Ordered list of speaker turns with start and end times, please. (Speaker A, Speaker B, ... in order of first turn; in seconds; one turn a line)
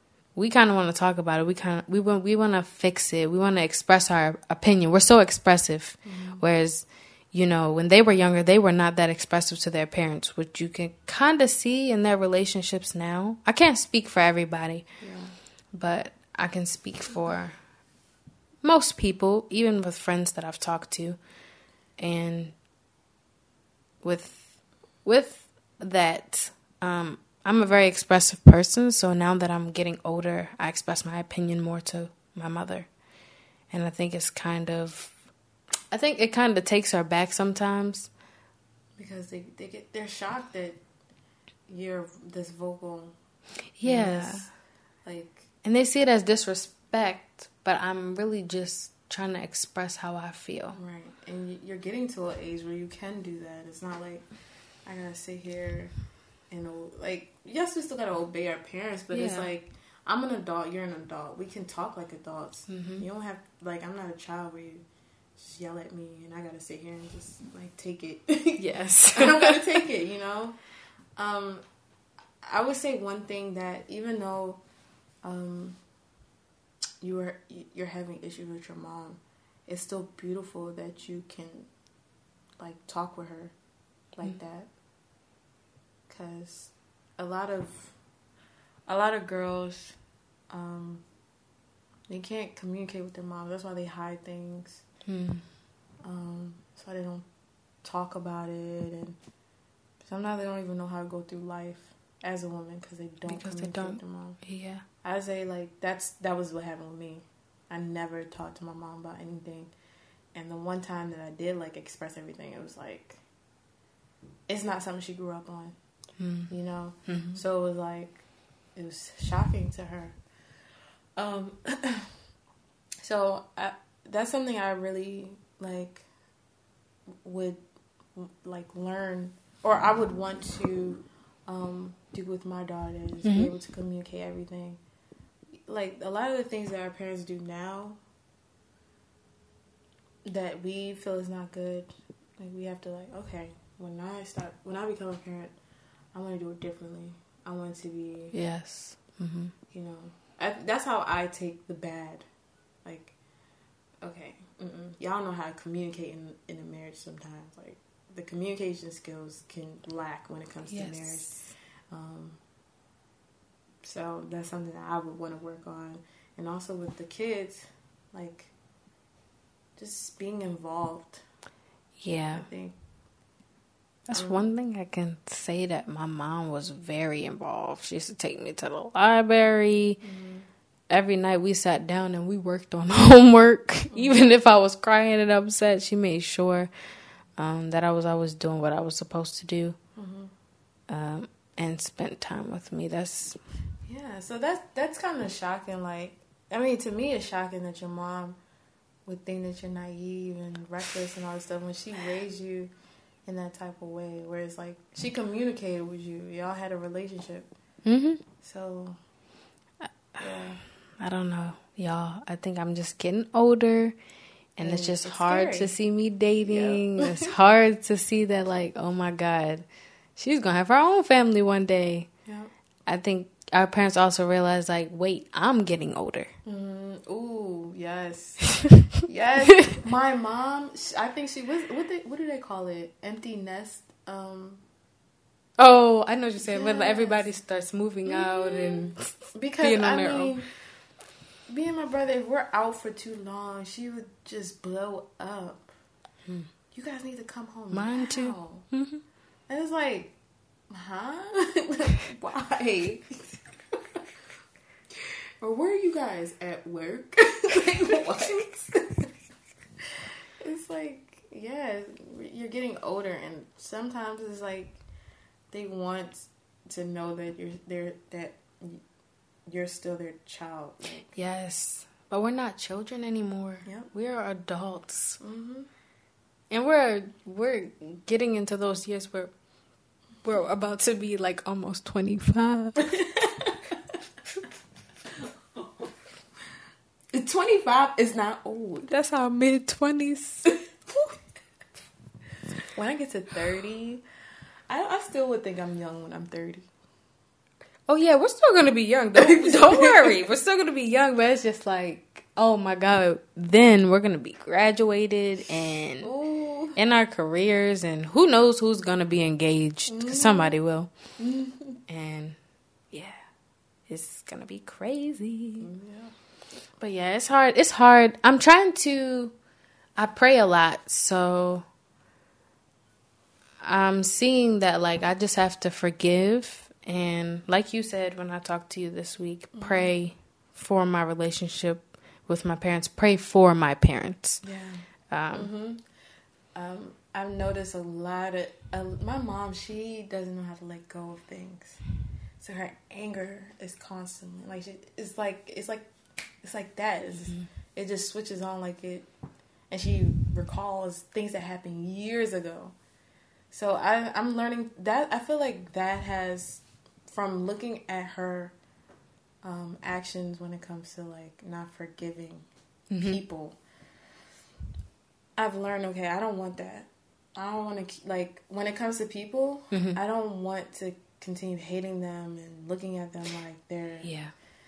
Speaker A: 0.3-14.9
Speaker B: 6.0-6.4
Speaker B: 15.0-15.3
Speaker A: 15.7-17.6
Speaker A: 18.6-21.2
Speaker A: 22.0-22.5
Speaker A: 24.0-32.9
Speaker A: 33.7-35.2
Speaker A: 35.9-38.1
Speaker B: 39.0-40.8
Speaker B: 41.7-43.1
Speaker A: 43.8-44.5
Speaker B: 43.8-44.5
Speaker B: 45.0-45.5
Speaker A: 45.6-50.8
Speaker B: 50.7-54.2
Speaker B: 54.8-55.9
Speaker B: 56.5-64.8
Speaker A: 59.1-59.5
Speaker A: 62.7-63.0
Speaker B: 65.4-70.6
Speaker A: 68.6-69.8
Speaker B: 71.2-71.6
Speaker B: 72.4-74.6
Speaker B: 75.2-75.8
Speaker B: 77.0-81.7
Speaker B: 82.6-83.5
Speaker B: 84.1-84.7
Speaker B: 86.1-88.0
Speaker B: 88.9-90.0
Speaker B: 90.5-91.0
Speaker B: 92.1-94.8
Speaker A: 95.0-95.4
Speaker B: 96.0-97.2
Speaker B: 97.8-99.2
Speaker B: 100.0-104.4
Speaker A: 103.3-104.8
Speaker B: 105.0-109.7
Speaker B: 110.3-113.2
Speaker B: 114.5-115.8
Speaker A: 116.2-116.5
Speaker B: 116.5-118.2
Speaker A: 117.1-117.4
Speaker B: 118.8-120.2
Speaker B: 121.2-122.2
Speaker B: 123.0-126.0
Speaker B: 127.2-127.6
Speaker B: 128.1-134.8
Speaker A: 133.2-133.5
Speaker B: 135.7-138.0
Speaker B: 140.2-145.5
Speaker B: 146.1-148.3
Speaker A: 148.3-149.5
Speaker B: 149.7-152.2
Speaker B: 152.8-153.1
Speaker B: 154.0-162.4
Speaker A: 160.7-161.5
Speaker B: 163.8-168.5
Speaker B: 169.8-171.2
Speaker A: 172.0-172.5
Speaker B: 172.3-172.8
Speaker A: 174.1-180.0
Speaker B: 174.1-174.4
Speaker B: 180.0-180.5
Speaker A: 180.9-186.7
Speaker B: 183.9-184.2
Speaker A: 187.4-189.8
Speaker B: 189.9-190.3
Speaker A: 190.9-193.4
Speaker B: 193.8-198.4
Speaker B: 199.1-202.7
Speaker B: 203.2-207.5
Speaker A: 207.8-208.2
Speaker B: 208.4-209.0
Speaker A: 209.8-210.2
Speaker B: 210.2-210.6
Speaker A: 211.0-213.9
Speaker A: 214.6-219.6
Speaker B: 214.6-215.7
Speaker B: 216.4-217.3
Speaker A: 220.2-222.1
Speaker B: 222.2-222.5
Speaker A: 222.8-226.3
Speaker B: 226.4-234.6
Speaker A: 235.6-240.4
Speaker B: 236.5-237.3
Speaker B: 238.1-240.5
Speaker B: 241.5-245.7
Speaker B: 246.7-248.7
Speaker A: 247.7-249.0
Speaker B: 249.5-250.1
Speaker B: 250.7-254.0
Speaker B: 255.0-259.1
Speaker B: 259.9-264.8
Speaker B: 265.5-268.8
Speaker B: 269.5-271.1
Speaker A: 271.1-275.2
Speaker B: 275.2-275.7
Speaker A: 276.5-279.3
Speaker A: 280.2-282.9
Speaker B: 282.8-283.7
Speaker B: 285.2-285.7
Speaker B: 287.1-288.9
Speaker A: 288.9-290.5
Speaker B: 290.5-291.1
Speaker B: 292.7-294.0
Speaker B: 294.7-296.7
Speaker A: 297.9-306.1
Speaker B: 299.1-300.1
Speaker B: 306.0-306.8
Speaker A: 306.7-310.9
Speaker B: 309.9-310.6
Speaker B: 311.2-311.8
Speaker A: 311.9-312.4
Speaker A: 312.9-313.2
Speaker A: 313.9-315.7
Speaker B: 315.6-316.1
Speaker A: 316.8-319.3
Speaker A: 320.0-321.6
Speaker A: 323.6-334.4
Speaker B: 329.5-329.9
Speaker B: 334.4-335.8
Speaker A: 335.1-335.5
Speaker B: 336.5-341.8
Speaker B: 342.4-345.9
Speaker B: 346.4-349.1
Speaker B: 349.7-352.7
Speaker B: 353.5-358.5
Speaker B: 359.4-362.5
Speaker A: 362.9-363.2
Speaker B: 363.0-363.6
Speaker B: 365.4-374.1
Speaker A: 369.7-370.0
Speaker A: 374.0-374.3